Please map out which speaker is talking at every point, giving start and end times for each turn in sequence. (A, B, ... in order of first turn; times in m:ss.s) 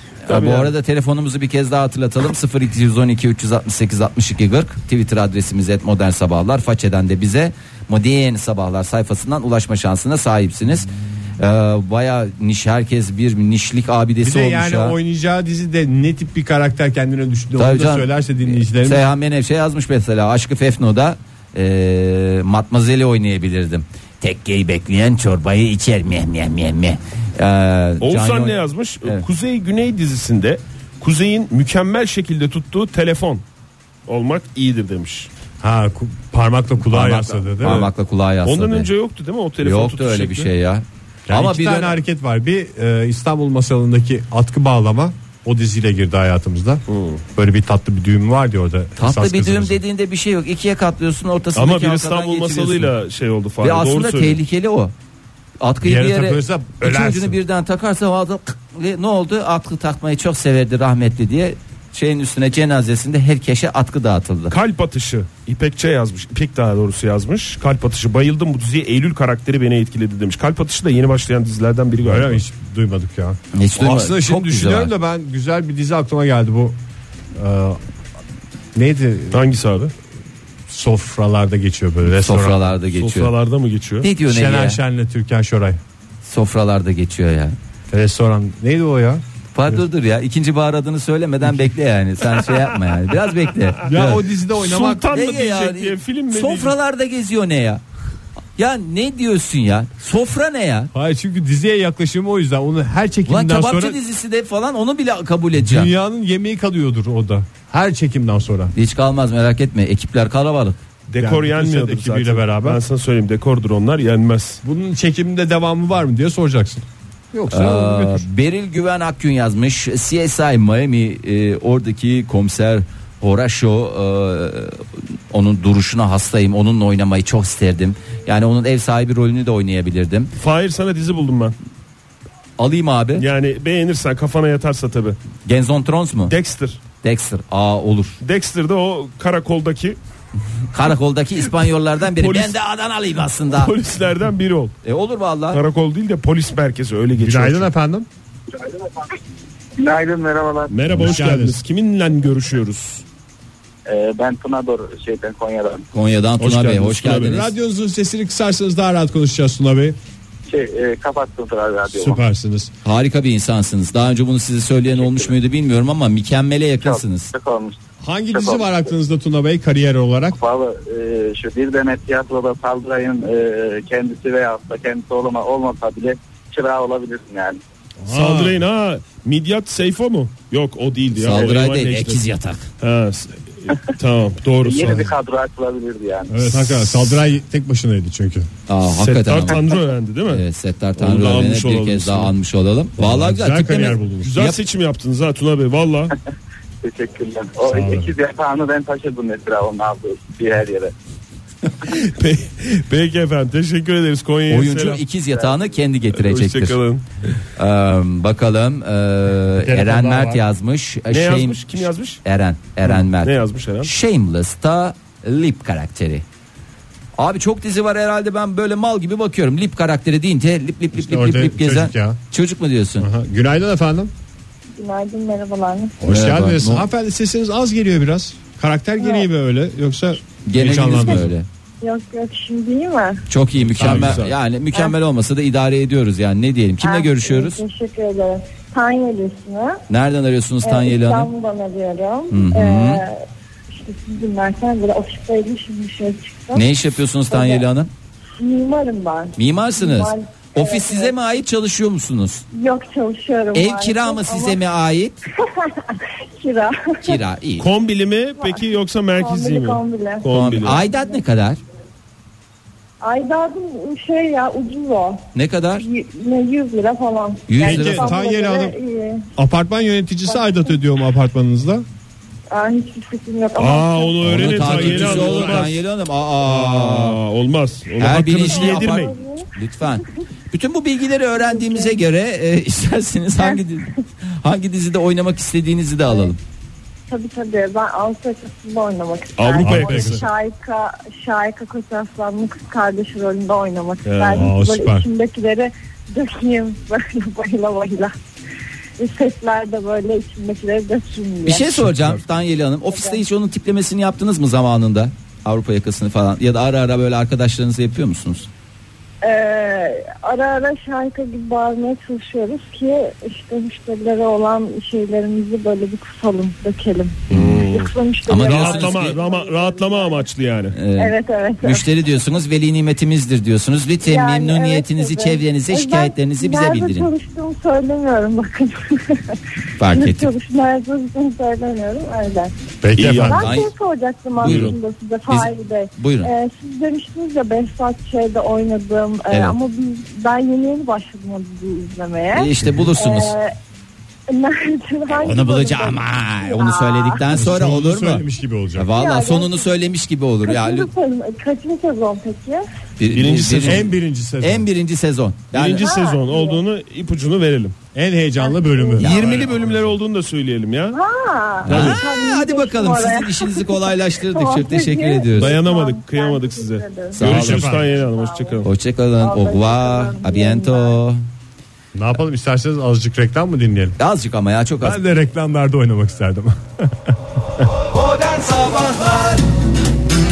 0:00.3-0:15.0 A
0:00.3-0:00.7 B
0:14.2-0:19.1 C
0:17.6-0:29.2 A
0:28.0-0:33.4 B
0:34.1-0:35.3 B
0:35.6-0:37.9 C
0:36.9-0:38.9 A
0:37.6-0:37.9 B
0:38.4-0:40.5 B
0:39.6-0:42.0 A
0:41.3-0:46.8 C
0:46.9-0:47.2 B
0:47.4-0:49.8 C
0:49.0-0:52.9 A
0:51.6-0:54.4 B
0:53.6-0:54.9 A
0:55.6-1:04.6 A
0:55.8-0:57.4 C
1:04.5-1:12.4 B
1:12.0-1:16.8 C
1:13.5-1:14.9 A
1:17.4-1:17.8 C
1:18.7-1:19.4 C
1:19.3-1:19.9 B
1:20.7-1:22.6 C
1:22.1-1:23.3 A
1:22.9-1:24.1 B
1:24.0-1:24.8 A
1:24.2-1:25.8 C
1:26.2-1:27.6 A
1:27.9-1:29.8 C
1:29.6-1:34.2 A
1:33.9-1:35.1 C
1:34.6-1:36.7 B
1:35.1-1:37.8 A
1:38.6-1:40.9 A
1:40.9-1:44.0 C
1:43.3-1:45.9 A
1:45.6-1:48.7 C
1:48.8-1:50.8 A
1:51.1-1:54.6 B
1:51.2-1:52.8 C
1:54.6-1:58.2 C
1:57.5-2:10.3 A
2:10.4-2:11.6 B
2:12.6-2:13.3 A
2:13.2-2:15.2 B
2:15.5-2:16.4 A
2:16.3-2:16.8 B
2:17.0-2:18.2 A
2:18.2-2:20.0 B
2:20.7-2:23.7 A
2:22.1-2:22.5 B
2:23.5-2:24.8 B
2:24.8-2:25.6 A
2:25.5-2:27.7 B
2:27.2-2:28.1 C
2:28.6-2:28.9 D
2:29.8-2:30.8 D
2:30.7-2:33.0 B
2:30.9-2:31.6 C
2:33.9-2:35.8 D
2:35.9-2:37.5 A
2:36.4-2:37.4 B
2:37.2-2:40.0 C
2:40.5-2:42.2 D
2:41.9-2:42.7 C
2:42.8-2:47.3 A
2:45.0-2:45.3 D
2:46.8-2:48.9 D
2:48.0-2:50.4 C
2:50.3-2:57.6 D
2:58.0-2:58.6 C
2:58.1-3:02.2 B
3:01.2-3:02.7 A
3:02.8-3:05.1 B
3:04.6-3:06.3 D
3:04.8-3:05.1 C
3:06.3-3:08.5 C
3:06.4-3:07.2 B
3:08.7-3:09.6 A
3:08.8-3:10.4 B
3:10.3-3:14.6 A
3:11.0-3:12.3 B
3:13.0-3:14.4 C
3:14.2-3:16.1 B
3:16.8-3:20.9 D
3:17.7-3:18.1 C
3:21.8-3:25.0 B
3:24.5-3:26.8 A
3:25.3-3:25.6 D
3:26.1-3:27.0 B
3:27.6-3:36.2 A
3:29.6-3:30.4 C
3:31.1-3:32.2 B
3:32.8-3:33.9 B
3:37.2-3:43.1 A
3:41.0-3:42.2 C
3:43.0-3:44.1 C
3:44.8-3:46.0 E
3:46.0-3:51.3 C
3:46.1-3:46.8 A
3:49.0-3:49.3 E
3:50.4-3:51.5 A
3:51.8-3:53.2 E
3:53.3-3:57.6 A
3:53.6-3:54.3 B
3:53.8-3:54.3 C
3:56.8-3:59.8 E
3:59.9-4:01.3 A
4:00.6-4:06.7 E
4:02.3-4:03.0 A
4:06.5-4:07.9 A
4:07.3-4:07.6 E
4:08.4-4:11.2 E
4:09.4-4:12.4 A
4:12.5-4:14.6 E
4:13.5-4:15.2 A
4:15.4-4:17.2 E
4:17.0-4:17.7 A
4:17.6-4:20.8 B
4:18.4-4:21.2 E
4:20.3-4:21.6 A
4:23.0-4:25.2 E
4:25.4-4:25.9 A
4:25.8-4:29.3 E
4:27.5-4:28.2 A
4:27.6-4:28.8 C
4:29.4-4:31.9 C
4:30.3-4:30.6 E
4:32.5-4:34.4 E
4:33.6-4:35.8 B
4:34.3-4:37.2 A
4:34.3-4:35.7 C
4:36.4-4:39.1 B
4:38.0-4:46.4 A
4:38.5-4:39.5 E
4:41.4-4:42.0 E
4:47.1-4:58.1 E
4:49.4-4:50.2 B
4:49.6-4:50.3 C
4:54.0-4:54.5 B
4:54.3-4:55.1 C
4:59.0-5:01.7 E
5:01.4-5:08.5 A
5:01.8-5:02.2 C
5:02.9-5:03.2 E
5:09.2-5:20.2 E
5:17.3-5:17.9 B
5:18.3-5:19.2 A
5:18.4-5:20.8 B
5:20.7-5:27.1 A
5:21.0-5:22.0 E
5:24.0-5:32.5 E
5:29.8-5:30.3 A
5:32.8-5:33.5 C
5:33.0-5:33.4 B
5:33.1-5:43.5 E
5:33.3-5:33.7 A
5:34.4-5:34.8 A
5:34.4-5:34.7 B
5:35.3-5:36.3 A
5:39.3-5:39.6 A
5:42.3-5:43.4 A
5:44.3-5:47.3 E
5:45.2-5:48.2 A
5:47.3-5:48.9 C
5:48.8-5:50.9 A
5:48.9-5:49.9 E
5:50.4-5:52.7 E
5:53.0-5:53.9 A
5:53.1-5:53.9 B
5:53.6-5:54.7 C
5:54.4-5:55.9 A
5:55.5-5:57.8 B
5:55.7-5:56.6 E
5:58.0-5:59.1 C
5:58.4-5:59.2 E
5:59.0-5:59.7 A
5:59.0-6:01.0 B
6:00.9-6:07.3 E
6:01.7-6:05.6 A
6:01.7-6:02.0 B
6:05.4-6:08.7 B
6:07.2-6:07.7 A
6:07.2-6:07.9 C
6:07.8-6:08.7 E
6:08.6-6:11.2 A
6:09.2-6:11.0 E
6:11.9-6:14.0 C
6:14.0-6:15.0 A
6:14.8-6:17.7 C
6:17.9-6:19.4 A